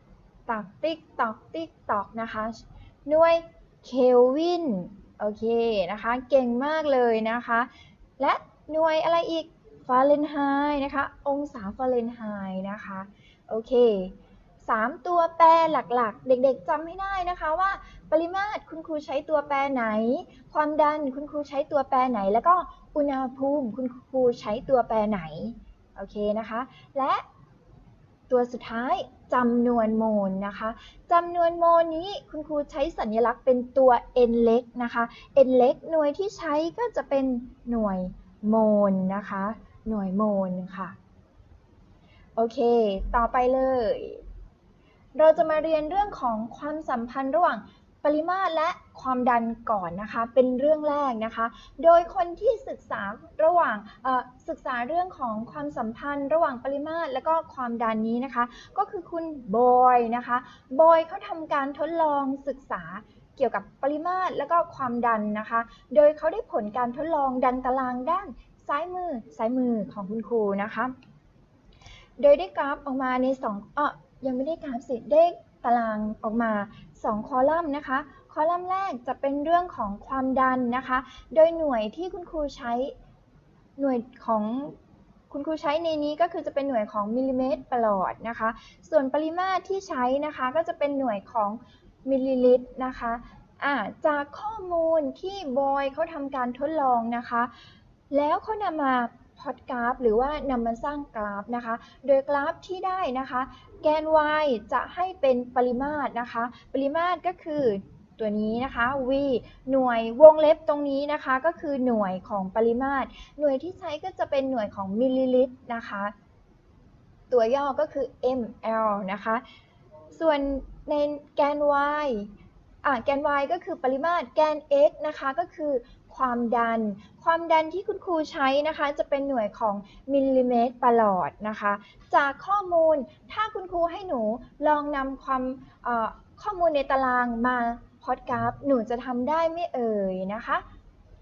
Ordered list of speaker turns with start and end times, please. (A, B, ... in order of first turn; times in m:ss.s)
0:00.5-0:27.2 A
0:28.3-0:40.9 A
0:42.4-0:44.2 A
0:45.2-1:10.9 A
1:12.2-1:22.9 A
1:23.8-1:24.7 A
1:25.3-1:37.5 A
1:38.1-1:56.1 A
1:57.3-1:59.4 A
2:00.1-2:02.3 A
2:02.8-2:20.6 A